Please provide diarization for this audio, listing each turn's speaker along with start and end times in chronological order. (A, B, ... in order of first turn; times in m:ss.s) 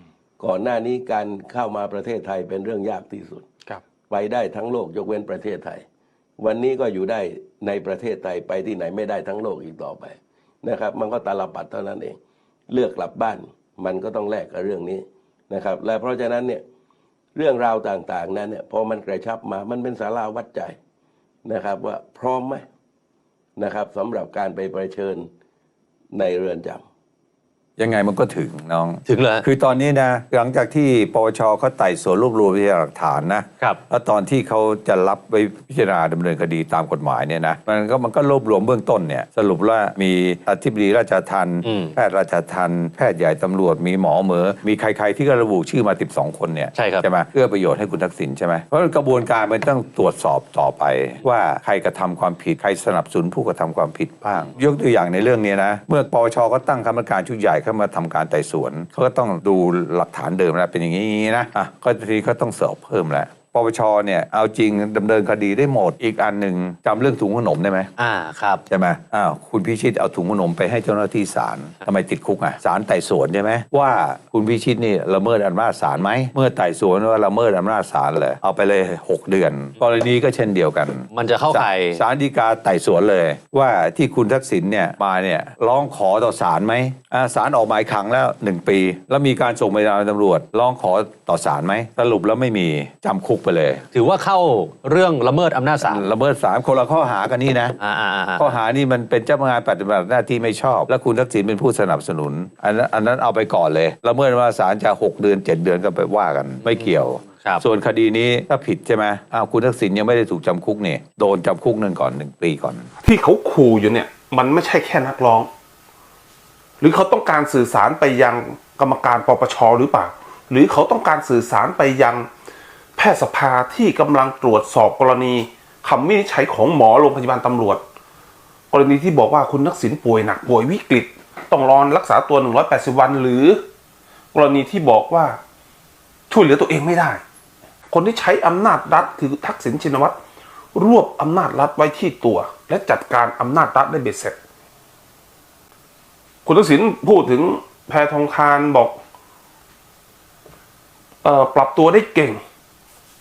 0:00.4-0:03.5 A
0:04.1-0:05.8 A
0:06.4-0:12.2 A
0:12.7-0:16.6 A
0:17.4-0:20.8 A
0:21.4-0:22.6 A
0:23.6-0:25.3 A
0:26.1-0:26.8 A
0:27.8-1:07.9 B
0:29.1-0:29.5 C
0:41.6-0:41.9 C
0:46.7-0:47.1 C
1:08.0-1:08.6 C
1:08.7-1:33.9 B
1:21.1-1:22.0 C
1:33.9-1:36.1 C
1:35.8-1:37.8 B
1:37.8-1:38.6 C
1:38.4-1:52.9 B
1:46.6-1:47.6 C
1:53.0-1:55.5 D
1:56.8-2:02.3 D
2:03.0-2:07.8 D
2:08.7-2:13.6 D
2:14.3-2:15.4 D
2:16.3-2:17.2 D
2:17.9-2:20.2 D
2:20.8-2:24.4 D
2:26.5-2:29.0 D
2:31.2-2:32.4 D